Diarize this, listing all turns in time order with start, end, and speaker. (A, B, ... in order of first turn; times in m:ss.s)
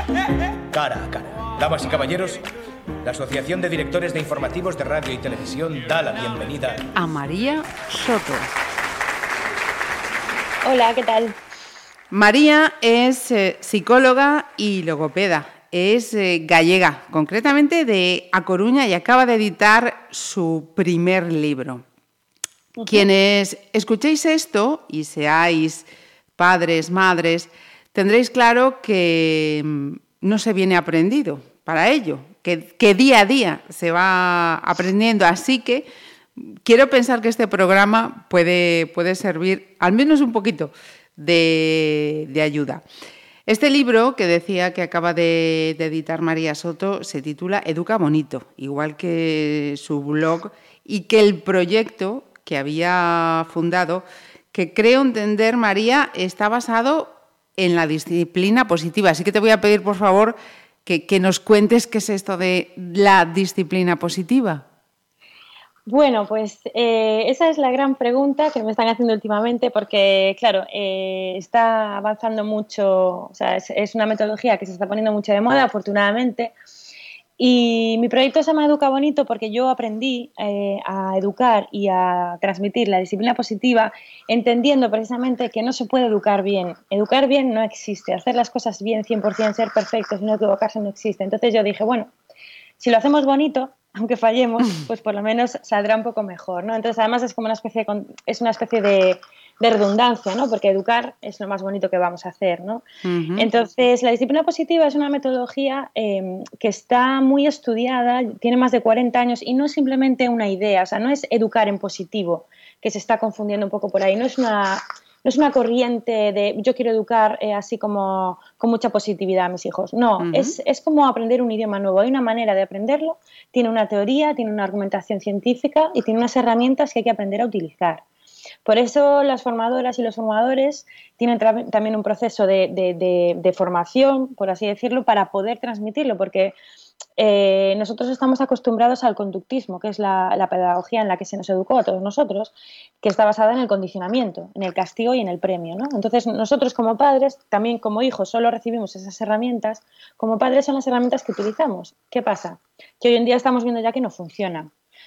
0:00.7-0:02.4 A
0:03.0-0:06.8 A
0:07.0-0:08.5 B
0:10.6-0:11.4 C
0:12.1-0:21.8 B
0:22.8-0:23.0 C
0:22.9-0:25.8 B
0:26.4-0:42.8 B
0:43.5-1:04.6 B
1:05.8-1:16.5 C
1:17.4-1:32.1 C
1:32.8-1:42.8 C
1:43.0-1:43.5 B
1:43.4-2:08.0 C
2:00.2-2:00.6 B
2:08.6-2:16.6 C
2:17.2-2:34.7 C